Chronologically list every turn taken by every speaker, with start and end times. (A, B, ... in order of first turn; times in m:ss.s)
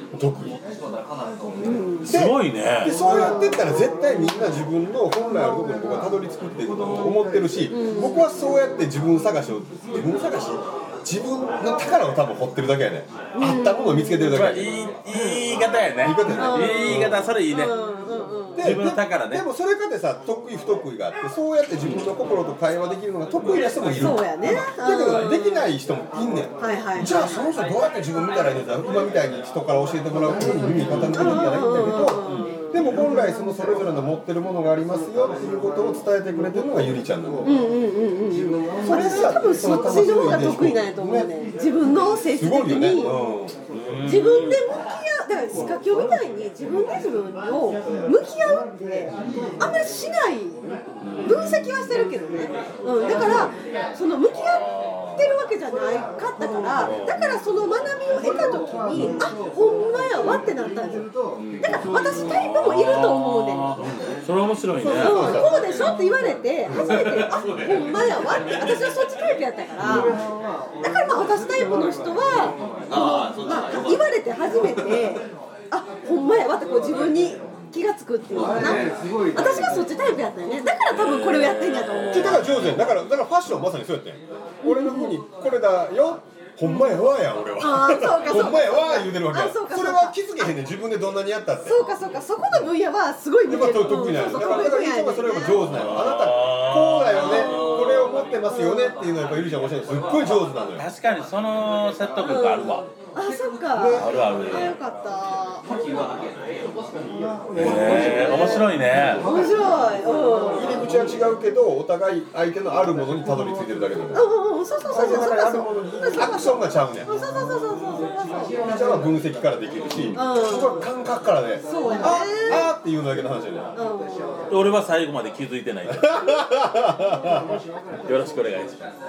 0:00.1-0:00.6 A
0:01.6-0:02.1 B
0:02.0-0:03.0 C
0:02.0-0:14.7 A
0:02.9-0:03.8 B
0:07.7-0:08.2 B
0:13.3-0:14.3 B
0:14.3-0:17.7 C
0:16.0-0:17.3 A
0:16.1-0:18.7 B
0:18.5-0:37.5 A
0:18.6-0:19.4 C
0:23.4-0:24.1 C
0:23.9-0:25.7 B
0:26.6-0:27.4 B
0:31.1-0:32.8 B
0:37.4-0:43.1 B
0:38.8-0:41.3 A
0:42.2-0:43.6 A
0:43.7-0:44.6 C
0:44.0-1:01.1 B
0:51.0-0:51.5 C
0:53.2-0:53.4 C
0:54.9-0:55.1 C
0:56.8-0:57.3 A
1:01.6-1:03.7 B
1:02.3-1:05.4 C
1:04.8-1:05.6 A
1:05.0-1:10.2 B
1:09.8-1:10.1 C
1:10.8-1:22.4 B
1:20.8-1:22.7 C
1:22.1-1:31.8 A
1:24.6-1:25.2 B
1:26.6-1:27.0 B
1:27.6-1:30.2 B
1:31.6-1:35.7 B
1:33.4-1:40.9 A
1:35.5-1:38.3 C
1:37.2-1:37.8 B
1:38.4-1:39.0 B
1:40.7-1:42.9 C
1:42.2-1:45.7 B
1:43.7-1:44.1 A
1:43.9-1:44.8 C
1:47.5-1:48.7 B
1:47.5-1:49.2 C
1:49.2-1:50.9 B
1:50.5-1:54.2 A
1:54.1-1:58.7 B
1:54.9-1:57.1 A
1:58.6-2:03.7 A
2:00.1-2:00.9 B
2:01.6-2:02.7 B
2:03.7-2:04.5 B
2:04.5-2:06.2 C
2:05.8-2:07.5 A
2:08.0-2:08.9 C